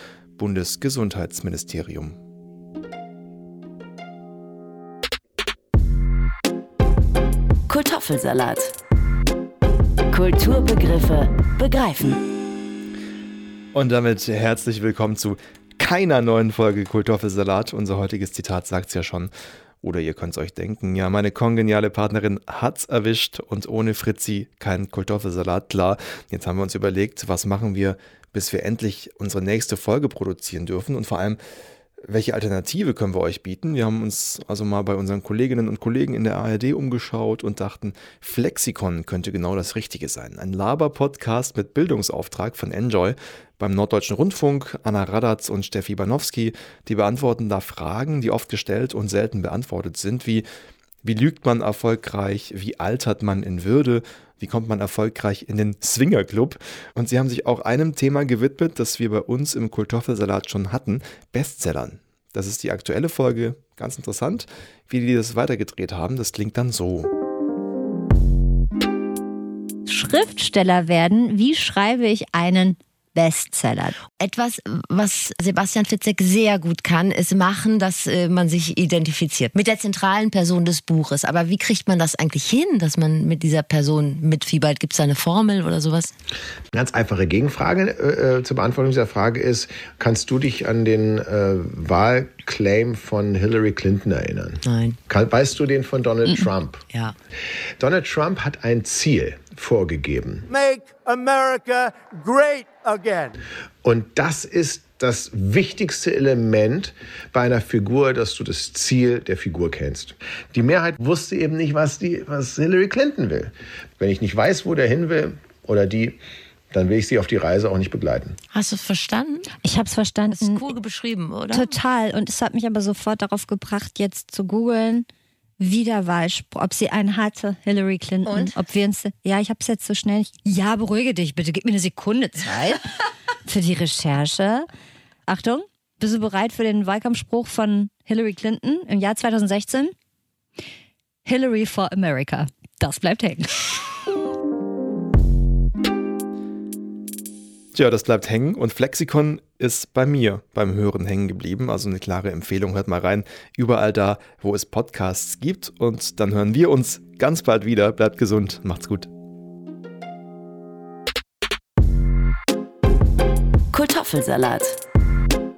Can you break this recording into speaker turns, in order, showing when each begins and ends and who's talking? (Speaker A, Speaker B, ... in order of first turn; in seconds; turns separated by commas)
Speaker A: 0.4-2.2, Speaker B: 7.7-8.7, Speaker B: 10.1-12.2, Speaker A: 13.7-19.3, Speaker A: 19.8-31.4, Speaker A: 32.1-50.5, Speaker A: 51.0-67.1, Speaker C: 69.9-74.0, Speaker D: 74.1-86.1, Speaker E: 86.7-96.9, Speaker D: 94.6-95.0, Speaker E: 97.8-100.5, Speaker F: 100.5-103.3, Speaker E: 103.8-116.2, Speaker E: 116.7-118.4, Speaker D: 118.5-119.6, Speaker C: 119.6-120.7, Speaker D: 120.3-121.8, Speaker C: 121.5-125.1, Speaker C: 125.6-132.9, Speaker D: 128.3-128.6, Speaker C: 133.4-134.7, Speaker C: 135.3-139.9, Speaker C: 141.2-143.7, Speaker A: 147.7-159.1, Speaker B: 163.7-164.8